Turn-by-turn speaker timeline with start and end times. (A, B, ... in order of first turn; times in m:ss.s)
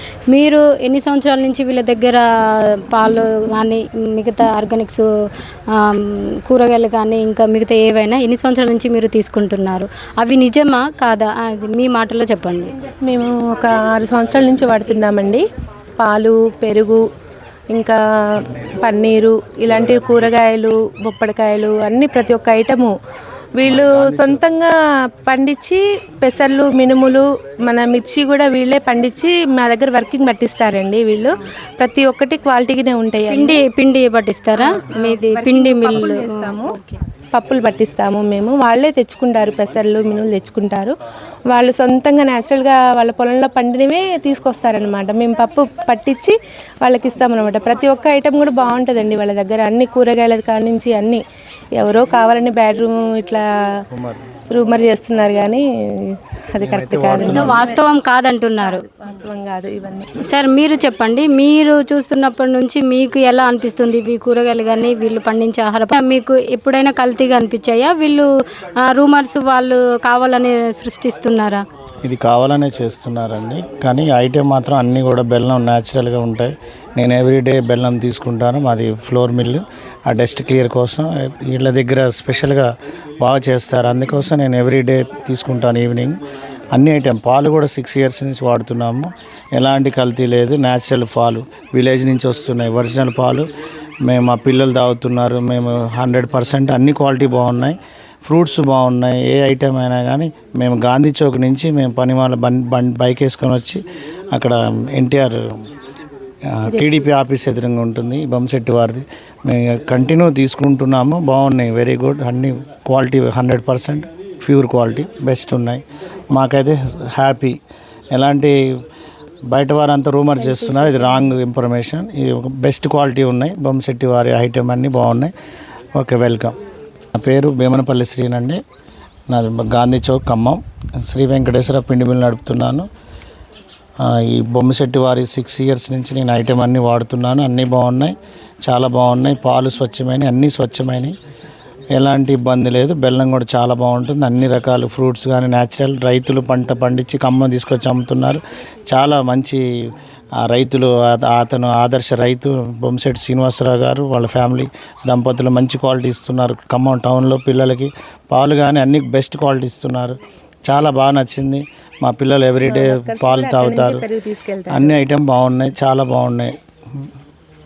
0:00.3-0:02.2 A
0:02.9-0:05.0 A
0:05.7-0:12.7 A
0:13.0-0:15.4 B
0:16.0-0:17.0 B
0:17.7-0:18.0 B
0:18.8-0:22.9 B
0:23.6-0:24.7 B
0:23.6-0:24.4 C
0:25.2-0:33.6 B
0:33.3-0:37.0 A
0:34.6-0:36.7 B
0:37.3-0:40.9 B
0:41.5-0:51.2 B
0:51.8-0:53.4 B
0:53.9-0:54.2 C
0:54.5-0:57.8 B
0:56.6-0:57.6 C
0:57.1-0:58.8 A
0:58.6-1:00.1 B
1:00.2-1:11.6 A
1:12.0-1:22.7 C
1:23.2-1:26.2 C
1:26.7-1:33.4 C
1:34.0-1:43.8 C
1:44.3-1:45.6 C
1:46.5-1:57.6 C
1:58.1-1:58.5 C
1:59.5-2:05.3 C
2:00.4-2:01.3 B
2:06.0-2:06.6 C
2:07.2-2:08.6 C
2:09.3-2:12.9 C
2:14.0-2:21.1 C
2:22.0-2:29.6 C
2:30.4-2:44.0 C
2:42.7-2:45.0 B
2:44.7-2:47.1 C